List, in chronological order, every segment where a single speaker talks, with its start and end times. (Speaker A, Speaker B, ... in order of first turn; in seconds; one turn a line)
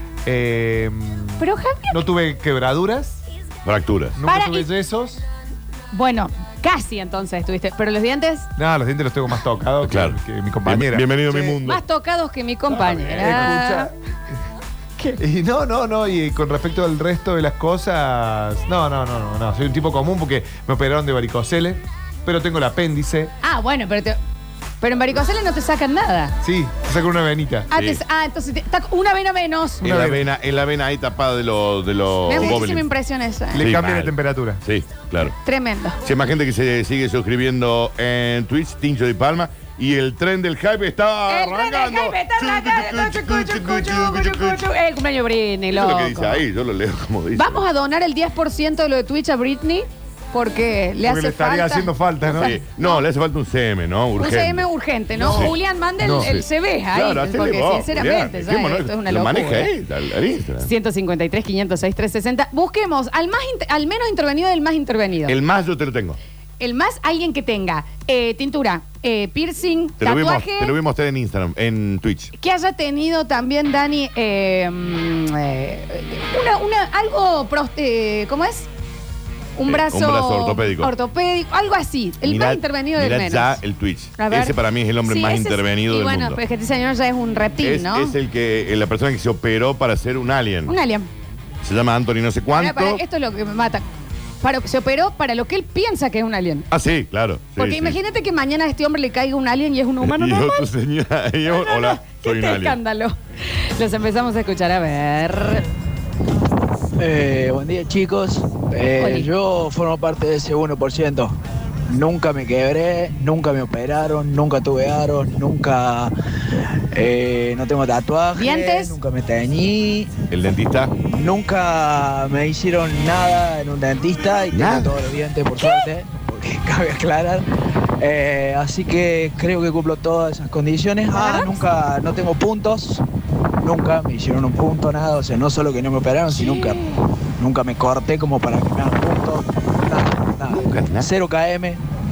Speaker A: 0.2-3.2
Speaker B: 1.4-2.0
Speaker C: 3.6-4.1
Speaker A: 4.2-5.2
Speaker B: 4.2-4.7
Speaker B: 5.9-8.5
Speaker A: 8.6-11.3
Speaker C: 9.8-11.8
Speaker B: 11.3-13.9
Speaker C: 12.9-13.4
Speaker A: 13.0-13.9
Speaker A: 15.2-23.3
Speaker B: 23.4-24.2
Speaker B: 24.8-26.4
Speaker A: 26.4-27.7
Speaker B: 27.7-29.9
Speaker C: 27.7-28.0
Speaker A: 29.8-30.2
Speaker C: 29.8-32.9
Speaker B: 32.2-33.6
Speaker A: 33.5-34.6
Speaker C: 33.6-35.3
Speaker B: 35.4-36.0
Speaker C: 36.0-44.6
Speaker B: 41.3-46.4
Speaker C: 45.7-47.6
Speaker B: 47.3-53.0
Speaker A: 51.0-52.5
Speaker C: 52.3-55.6
Speaker B: 54.2-59.7
Speaker A: 55.2-56.3
Speaker C: 56.2-60.7
Speaker B: 60.6-65.3
Speaker C: 65.2-66.2
Speaker B: 66.6-70.7
Speaker C: 70.0-72.3
Speaker B: 72.3-78.7
Speaker B: 79.5-83.6
Speaker C: 79.7-80.9
Speaker C: 82.2-86.4
Speaker B: 84.2-88.1
Speaker C: 87.6-90.7
Speaker B: 90.7-91.1
Speaker C: 91.6-93.0
Speaker B: 92.5-93.8
Speaker B: 94.4-96.7
Speaker C: 96.7-98.0
Speaker B: 97.6-100.7
Speaker C: 100.0-102.8
Speaker B: 101.5-105.6
Speaker D: 107.0-111.3
Speaker B: 109.0-109.3
Speaker D: 111.9-116.1
Speaker D: 116.9-120.1
Speaker B: 118.3-118.9
Speaker C: 120.3-120.9
Speaker D: 121.0-127.4
Speaker C: 124.5-124.9
Speaker B: 125.6-125.9
Speaker D: 128.0-133.0
Speaker B: 131.1-131.6
Speaker D: 133.6-136.8
Speaker D: 137.4-141.8
Speaker C: 140.5-141.1